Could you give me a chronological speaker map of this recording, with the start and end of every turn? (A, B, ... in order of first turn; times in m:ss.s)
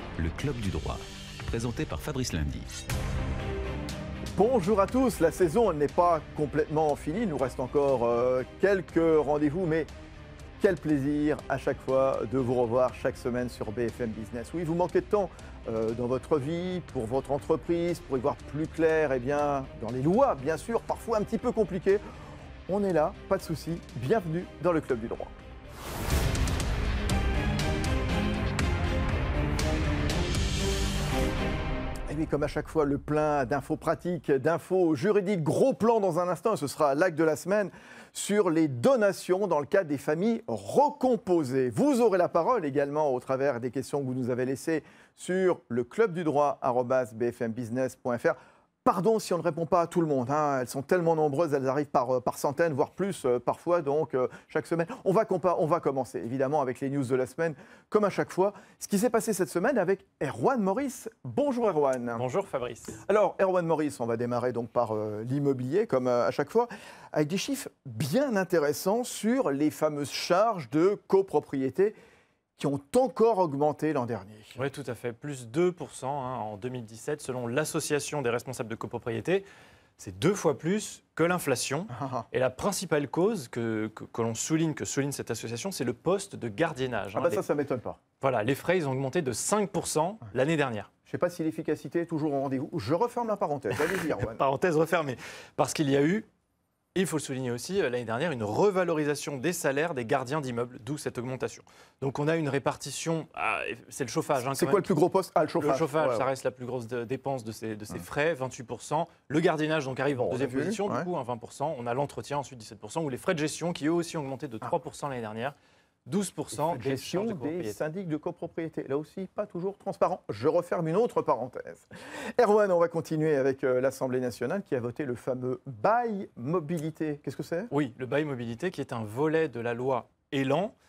0:00.2-0:02.7 A
0:04.4-0:09.9 B
0:10.6-0:22.0 B
0:22.7-0:25.3 B
0:32.1-1:02.2 B
1:02.2-1:03.0 C
1:03.0-1:12.0 B
1:12.6-1:14.6 B
1:14.6-1:19.4 C
1:20.0-1:27.4 C
1:21.9-1:22.3 B
1:27.2-1:28.0 B
1:28.2-1:30.9 C
1:31.1-1:34.4 B
1:33.8-1:36.3 C
1:37.0-1:44.9 C
1:44.4-1:46.3 B
1:45.6-1:55.6 C
1:50.1-1:51.1 B
1:56.1-1:57.8 C
1:56.5-2:07.7 B
2:07.7-2:10.7 C